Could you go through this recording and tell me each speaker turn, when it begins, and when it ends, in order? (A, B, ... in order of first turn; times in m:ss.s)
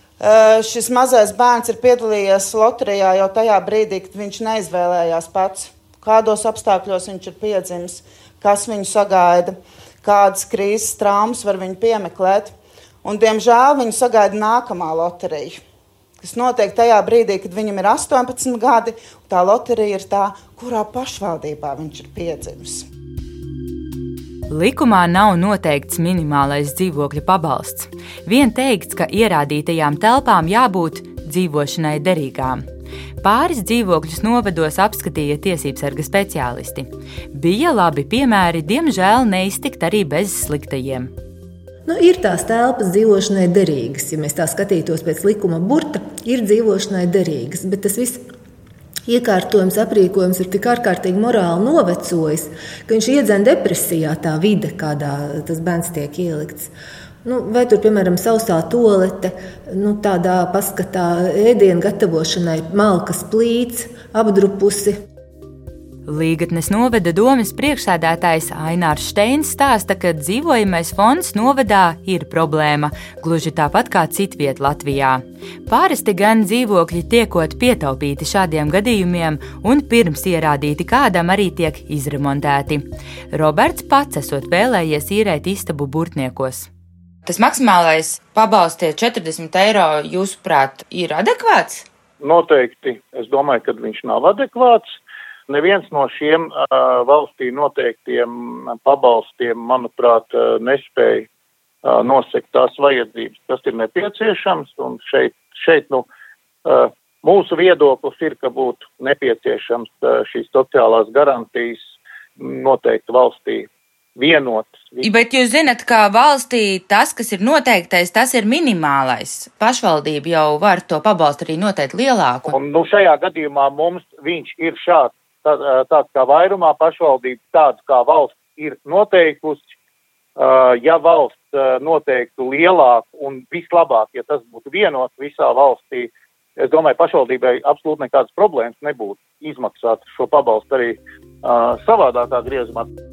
0:00.2-0:15.6 A
0:16.2-0:22.8 A
0:24.5-0:32.6 B
0:33.2-0:41.1 B
0:41.8-0:48.2 C
0:49.1-0:56.7 C
0:57.2-1:05.0 C
1:06.1-1:26.7 B
1:27.2-1:31.8 D
1:32.2-1:34.9 E
1:35.5-1:41.3 E
1:41.8-1:46.1 E
1:46.6-1:51.8 E
1:52.4-1:55.0 E
1:55.0-2:02.5 D
2:02.5-2:09.7 E
2:10.4-2:22.9 E